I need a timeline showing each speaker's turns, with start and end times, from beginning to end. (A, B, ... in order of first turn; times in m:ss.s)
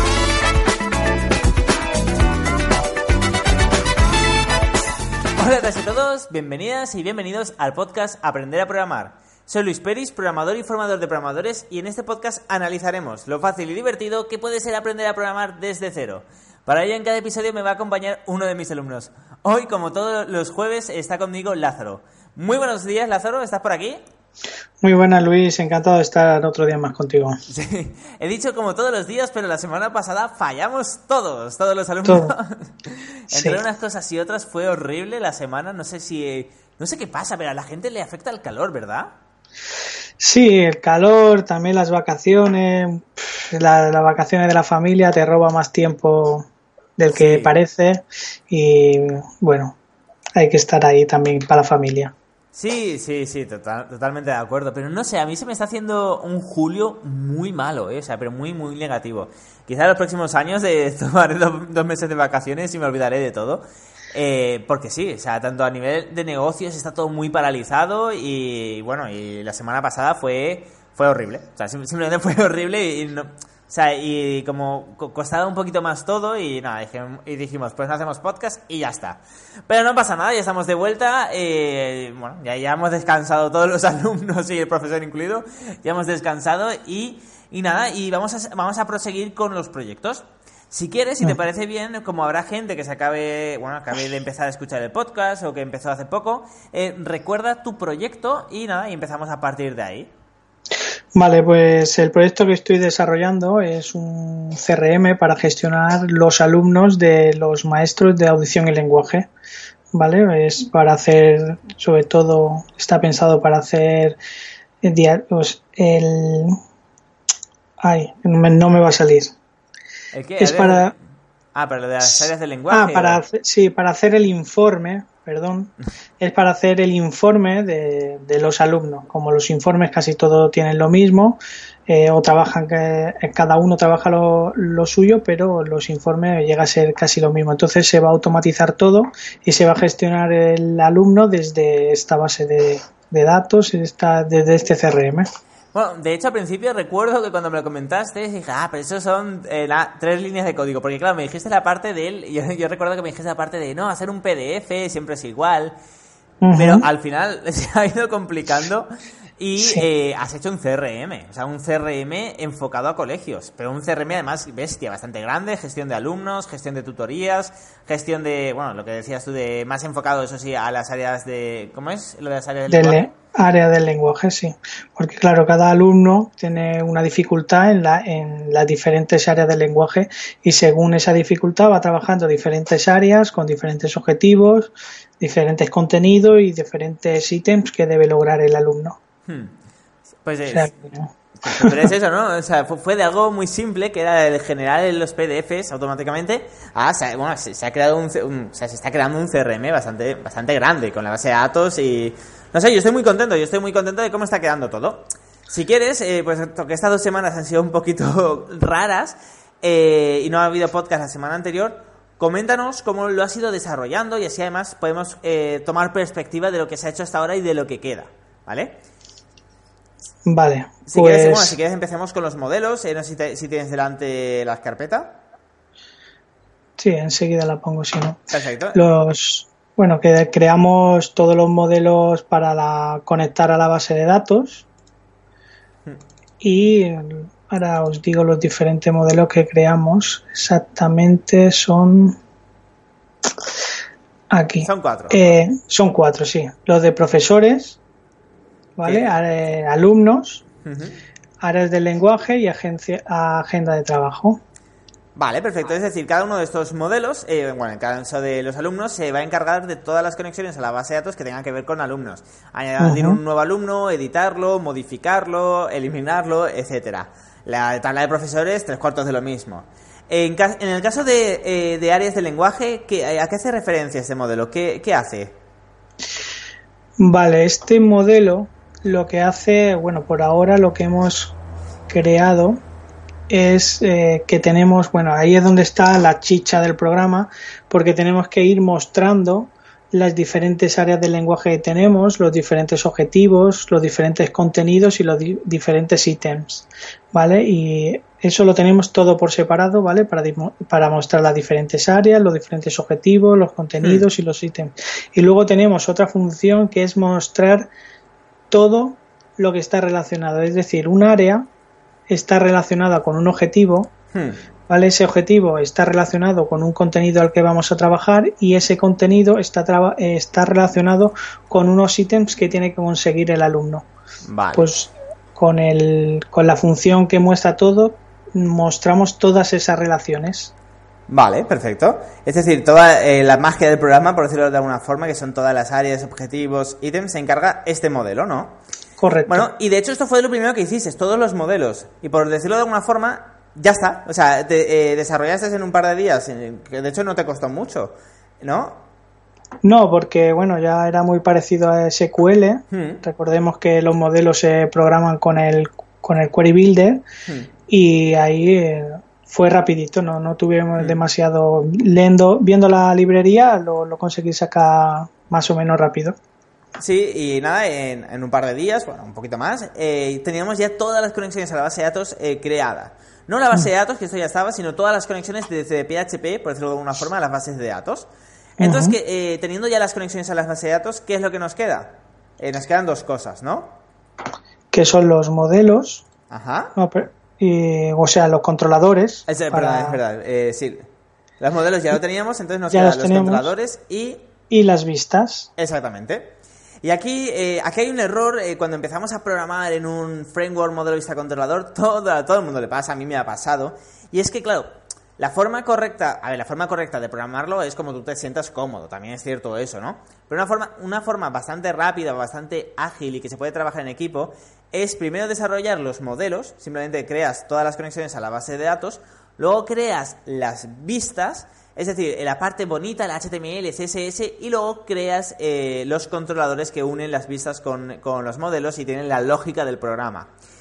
0:05.4-0:24.0 A
0:24.8-0:27.4 B
0:27.5-0:39.1 A
0:32.0-0:32.4 B
0:33.3-0:33.6 B
0:40.2-0:49.8 B
0:47.1-0:47.6 A
0:50.4-0:52.1 B
0:52.5-1:40.1 A
1:41.2-1:49.3 B
1:49.9-1:54.2 B
1:54.8-1:56.6 B
1:57.8-1:59.3 B
2:00.1-2:01.0 A
2:00.4-2:00.9 B
2:01.6-2:03.2 A
2:02.0-2:25.3 B
2:25.7-2:35.8 A
2:36.4-2:36.8 B
2:36.6-2:53.1 A
2:39.6-2:39.9 B
2:52.7-3:09.0 B
3:09.3-3:09.6 A
3:10.2-3:10.7 A
3:10.5-3:11.9 B
3:11.4-3:38.8 A
3:40.3-3:41.6 B
3:40.9-3:45.2 A
3:46.8-3:48.2 B
3:48.3-3:48.8 A
3:48.7-3:54.7 B
3:56.4-4:02.2 B
4:04.3-4:07.8 B
4:04.6-4:05.4 A
4:08.8-4:10.4 B
4:08.8-4:09.1 A
4:10.6-4:11.0 A
4:11.4-4:14.4 B
4:15.2-4:35.3 A
4:22.8-4:23.2 B
4:37.0-4:41.4 B
4:41.9-4:42.6 B
4:43.3-5:07.7 B
5:08.5-5:11.5 B
5:12.1-5:13.9 B
5:14.1-5:14.4 A
5:14.7-5:23.9 B
5:24.3-5:24.7 A
5:24.6-5:30.5 B
5:31.1-5:38.6 A
5:39.0-5:39.5 B
5:39.3-5:48.8 A
5:49.6-5:57.0 B
5:52.7-5:53.0 A
5:57.7-6:06.2 B
6:06.8-6:18.1 A
6:18.6-6:19.0 B
6:18.6-6:23.8 A
6:24.7-6:26.1 B
6:26.3-6:26.8 A
6:26.8-6:30.0 B
6:29.3-6:30.9 A
6:31.4-6:34.2 A
6:32.7-6:33.5 B
6:34.5-6:35.5 B
6:35.6-7:10.3 A